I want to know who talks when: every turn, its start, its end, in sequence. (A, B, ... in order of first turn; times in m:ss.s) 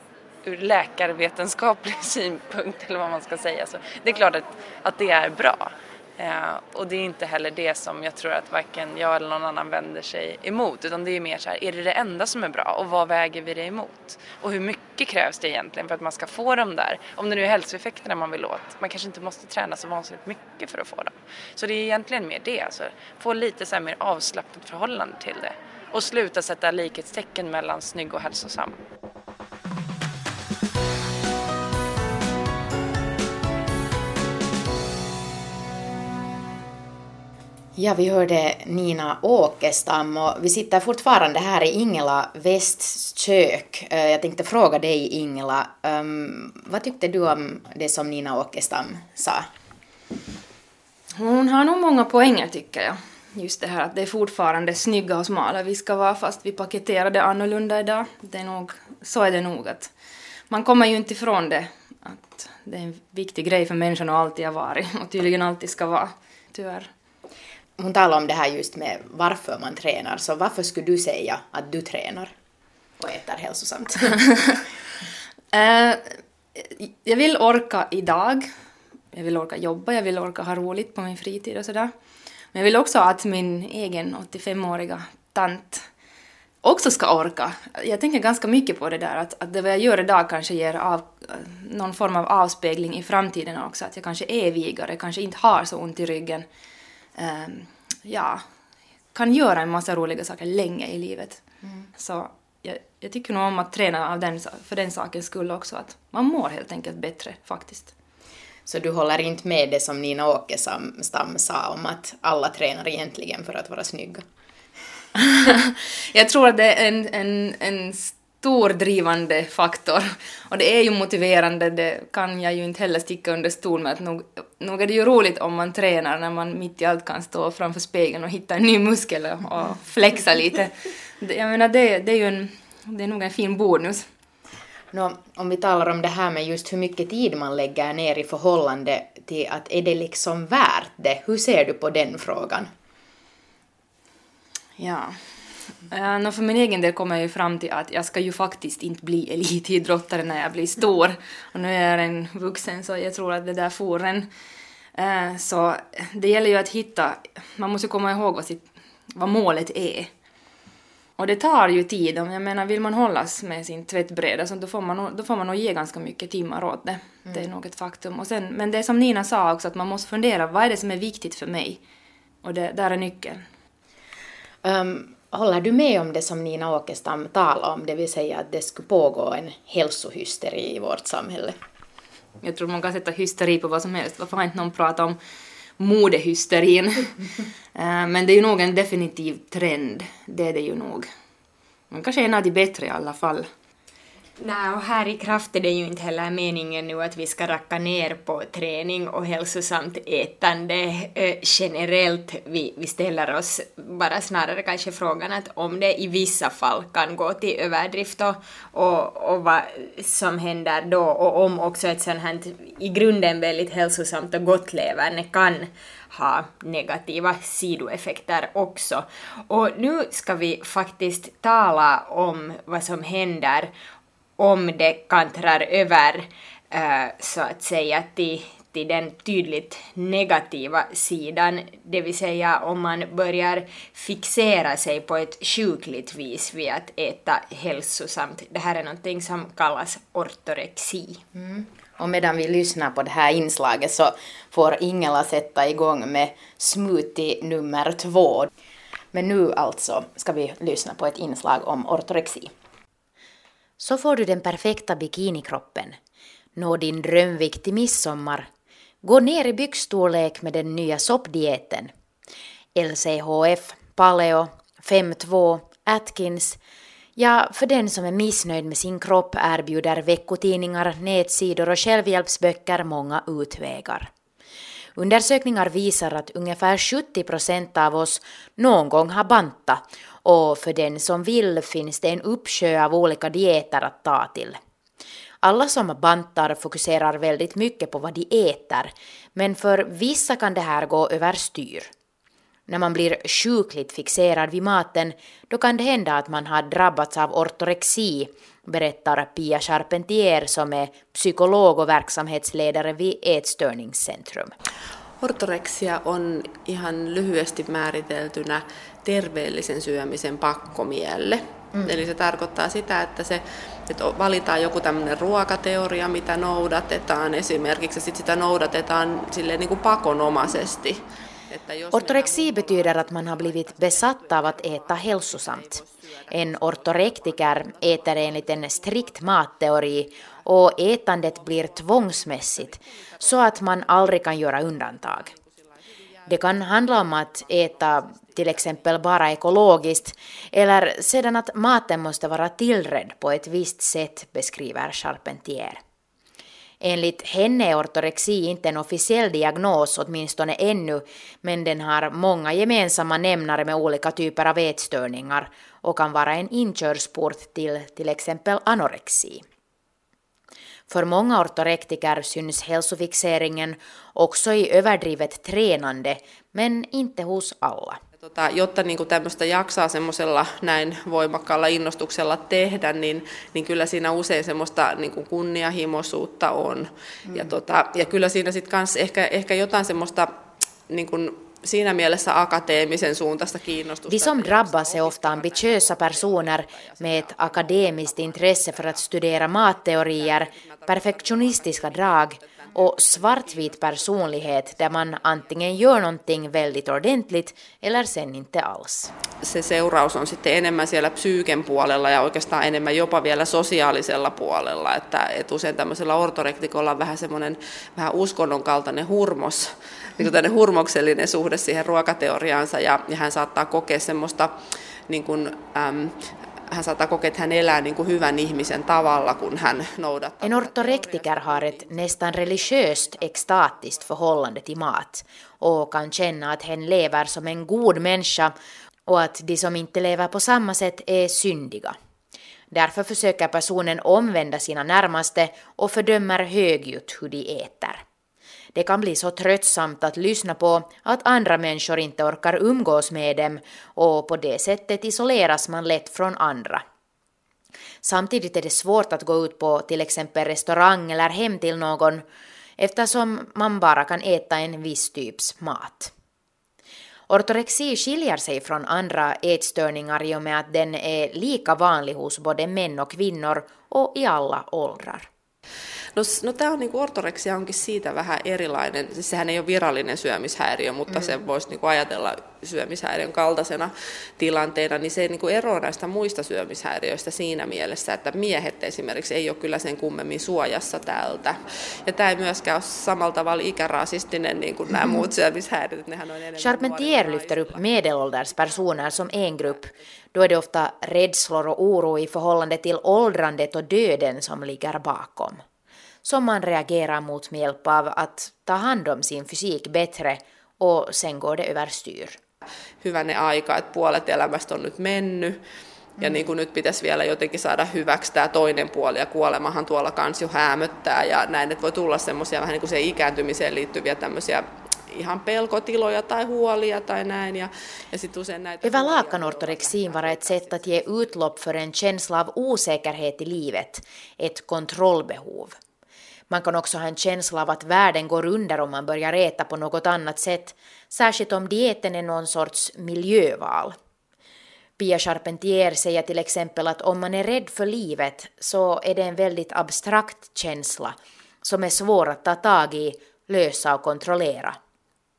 0:00.4-0:28.8 A
0:37.8-0:49.5 B
0:51.2-0:59.9 C
1:00.5-1:06.9 C
1:07.8-1:12.3 B
1:13.0-1:14.2 B
1:15.5-1:18.5 C
1:19.1-1:21.9 C
1:22.5-1:25.9 C
1:26.6-1:36.5 C
1:37.2-1:38.4 C
1:39.1-1:41.4 C
1:42.0-1:47.9 C
1:48.7-1:54.2 B
1:55.2-2:14.0 C
2:14.9-2:22.7 B
2:24.8-2:25.2 C
2:25.9-2:34.3 C
2:35.0-2:40.1 C
2:41.2-2:51.8 C
2:52.4-2:53.4 C
2:54.6-3:01.6 B
3:02.4-3:05.2 C
3:05.8-3:07.2 C
3:07.8-3:11.1 C
3:11.9-3:13.5 C
3:14.4-3:43.7 D
3:44.4-4:01.2 D
4:01.4-4:08.5 B
4:09.1-4:12.5 B
4:13.8-4:16.0 B
4:16.6-4:18.5 B
4:19.0-4:21.9 B
4:22.8-4:26.6 B
4:27.2-4:34.1 B
4:35.0-4:44.6 B
4:45.4-4:51.9 B
4:52.7-5:04.5 B
5:05.2-5:24.1 E
5:11.7-5:12.0 B
5:21.9-5:35.3 B
5:25.6-5:25.9 E
5:36.3-5:45.8 B
5:46.8-5:59.4 B
6:00.9-6:08.0 B
6:08.2-6:27.6 E
6:24.1-6:39.1 B
6:30.2-6:31.2 E
6:32.4-6:32.8 E
6:39.4-6:56.2 E
6:56.7-7:02.1 E
7:00.4-7:08.5 B
7:09.1-7:12.0 B
7:12.7-7:18.0 B
7:18.8-7:26.8 B
7:28.0-7:32.2 B
7:32.8-7:36.1 B
7:37.3-7:45.3 B
7:46.2-8:07.8 E
8:06.6-8:15.6 B
8:16.2-8:22.4 B
8:23.0-8:25.6 E
8:26.2-8:26.5 B
8:26.2-8:41.3 E
8:38.8-8:45.8 B
8:46.5-8:54.0 B
8:55.0-9:04.8 B